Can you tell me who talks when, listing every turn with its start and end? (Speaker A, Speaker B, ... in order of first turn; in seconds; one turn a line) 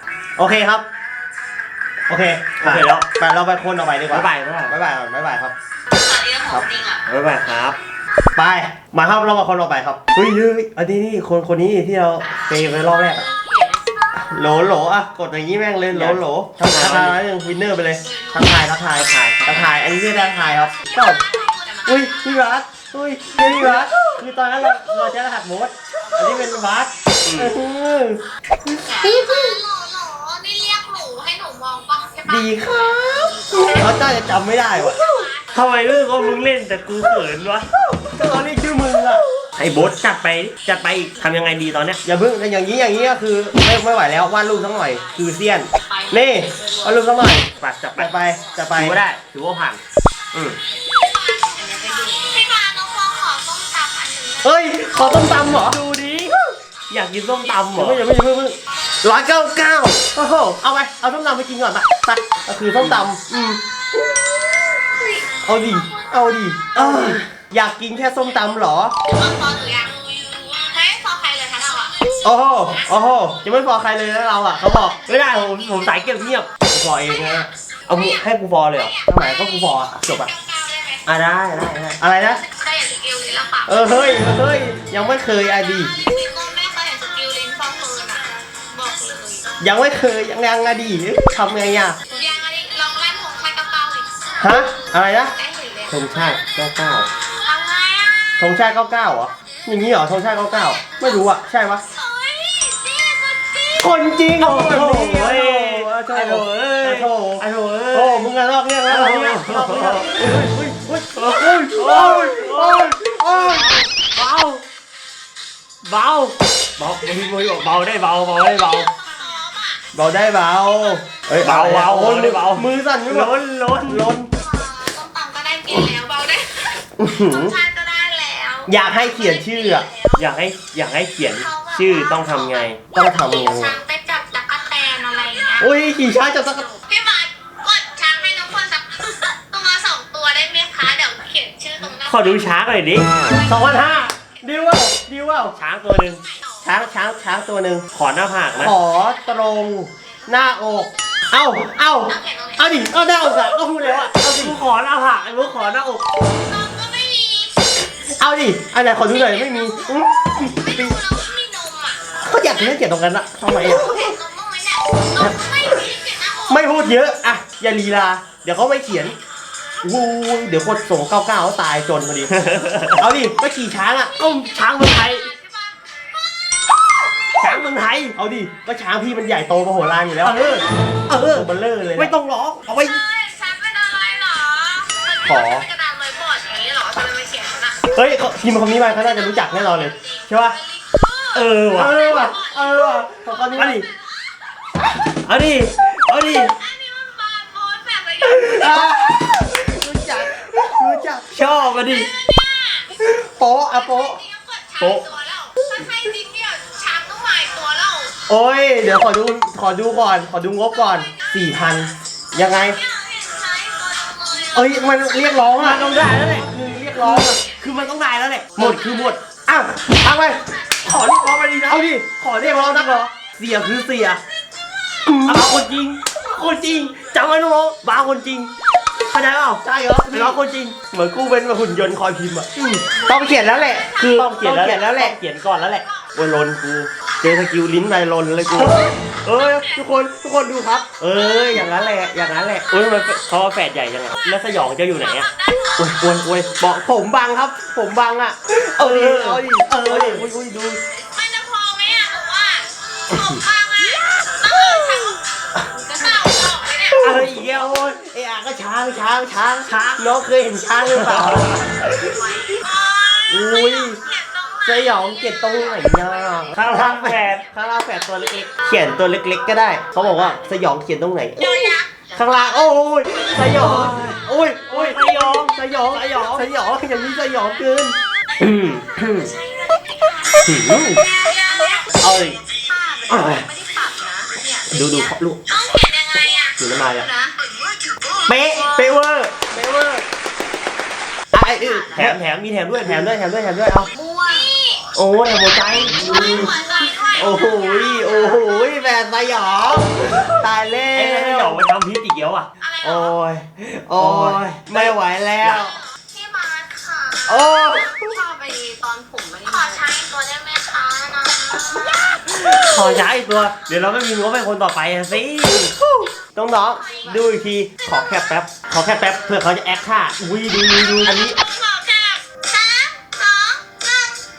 Speaker A: 0.4-0.8
Speaker A: 2.1-5.5
Speaker B: 2.6-3.1
Speaker B: 4.1-4.8
Speaker C: 5.9-7.0
Speaker B: 7.1-7.8
Speaker A: 8.3-13.3
Speaker C: 13.3-14.1
Speaker A: 14.2-21.2
Speaker B: 15.9-17.2
Speaker C: 18.0-18.6
Speaker B: 18.9-19.8
Speaker C: 20.8-22.1
Speaker A: 21.9-29.6
Speaker B: 23.4-23.9
Speaker B: 27.2-27.6
Speaker C: 28.8-33.7
Speaker A: 32.3-35.3
Speaker C: 34.8-35.6
Speaker B: 35.5-37.7
Speaker A: 37.9-39.2
Speaker B: 39.6-42.0
Speaker A: 42.0-49.0
Speaker C: 45.9-47.0
Speaker B: 47.6-49.8
Speaker B: 50.3-50.6
Speaker C: 50.9-54.5
Speaker A: 54.4-55.8
Speaker B: 55.5-58.0
Speaker A: 57.7-64.8
Speaker B: 62.8-63.0
Speaker A: 65.5-69.0
Speaker B: 66.8-67.3
Speaker C: 69.0-72.3
Speaker A: 72.2-75.0
Speaker B: 75.0-76.5
Speaker A: 76.7-77.5
Speaker B: 77.9-79.0
Speaker A: 79.1-80.3
Speaker C: 80.2-81.0
Speaker B: 81.1-82.0
Speaker A: 82.0-82.4
Speaker C: 82.4-84.0
Speaker A: 83.7-85.9
Speaker C: 85.9-89.6
Speaker A: 89.6-92.0
Speaker C: 92.1-94.2
Speaker A: 94.4-95.3
Speaker C: 95.4-96.6
Speaker A: 95.9-97.1
Speaker C: 97.3-98.4
Speaker A: 98.4-101.8
Speaker C: 102.0-103.9
Speaker A: 103.8-113.8
Speaker B: 104.4-108.3
Speaker B: 108.9-110.5
Speaker B: 111.1-114.6
Speaker B: 115.8-118.9
Speaker C: 118.4-119.8
Speaker A: 119.9-124.3
Speaker B: 121.4-124.2
Speaker C: 124.3-126.8
Speaker A: 127.0-127.6
Speaker C: 127.3-130.2
Speaker A: 128.7-129.9
Speaker B: 130.2-132.9
Speaker C: 131.3-136.0
Speaker A: 132.9-133.8
Speaker A: 135.6-136.7
Speaker C: 136.6-142.6
Speaker B: 141.8-143.4
Speaker C: 143.2-143.8
Speaker A: 143.4-145.6
Speaker B: 145.6-146.2
Speaker C: 146.2-146.7
Speaker A: 146.6-147.9
Speaker B: 147.9-148.8
Speaker A: 148.6-154.6
Speaker C: 152.1-152.9
Speaker B: 154.1-156.1
Speaker C: 156.3-157.7
Speaker A: 158.2-161.0
Speaker C: 160.5-162.0
Speaker A: 162.2-164.2
Speaker C: 163.7-166.6
Speaker A: 166.5-169.2
Speaker A: 169.8-172.3
Speaker B: 172.3-173.1
Speaker A: 173.0-174.3
Speaker B: 174.2-175.3
Speaker C: 174.3-176.2
Speaker B: 177.4-178.2
Speaker A: 178.1-180.6
Speaker B: 180.2-183.0
Speaker A: 181.3-182.1
Speaker C: 182.7-187.8
Speaker A: 185.2-185.7
Speaker A: 187.9-190.6
Speaker C: 189.3-193.1
Speaker B: 191.3-192.2
Speaker A: 191.7-193.8
Speaker B: 193.5-193.9
Speaker B: 195.2-196.5
Speaker C: 196.4-198.6
Speaker A: 198.2-201.3
Speaker B: 198.5-199.2
Speaker B: 201.3-202.2
Speaker C: 201.8-202.9
Speaker A: 203.0-204.2
Speaker C: 203.8-208.2
Speaker B: 204.8-205.1
Speaker A: 208.3-212.8
Speaker C: 212.7-215.2
Speaker A: 214.5-217.4
Speaker B: 215.4-219.0
Speaker C: 217.5-217.8
Speaker A: 218.6-224.2
Speaker C: 220.6-220.9
Speaker B: 220.9-221.8
Speaker B: 222.4-223.1
Speaker A: 225.1-225.5
Speaker B: 225.3-230.9
Speaker A: 229.6-230.4
Speaker A: 230.9-235.2
Speaker B: 234.0-236.9
Speaker A: 237.2-242.7
Speaker B: 238.6-239.7
Speaker B: 242.7-245.3
Speaker C: 245.0-246.0
Speaker A: 245.8-250.8
Speaker B: 248.8-250.3
Speaker C: 250.9-257.2
Speaker B: 256.9-258.0
Speaker A: 256.9-262.5
Speaker B: 259.6-260.1
Speaker B: 260.8-262.1
Speaker C: 262.0-266.6
Speaker A: 263.3-264.0
Speaker A: 264.6-278.0
Speaker B: 266.5-267.5
Speaker C: 268.4-268.7
Speaker C: 270.0-270.3
Speaker C: 271.4-272.4
Speaker B: 273.4-276.5
Speaker C: 276.9-277.4
Speaker B: 278.4-279.3
Speaker C: 279.0-288.9
Speaker B: 280.4-281.0
Speaker A: 280.5-281.0
Speaker A: 282.0-282.4
Speaker B: 283.1-283.4
Speaker A: 284.7-285.4
Speaker A: 286.6-287.1
Speaker A: 288.3-290.0
Speaker A: 291.3-292.2
Speaker C: 291.6-292.0
Speaker B: 291.9-293.1
Speaker A: 292.8-293.9
Speaker C: 293.9-294.9
Speaker A: 295.0-301.6
Speaker B: 295.6-296.5
Speaker C: 296.0-298.8
Speaker B: 300.9-302.5
Speaker C: 302.6-303.1
Speaker A: 302.8-305.8
Speaker B: 303.9-305.7
Speaker C: 305.6-312.4
Speaker A: 307.3-308.2
Speaker B: 312.3-315.8
Speaker A: 315.6-317.8
Speaker C: 316.7-317.2
Speaker B: 317.1-318.7
Speaker A: 318.5-321.4
Speaker B: 320.2-321.1
Speaker C: 321.1-324.2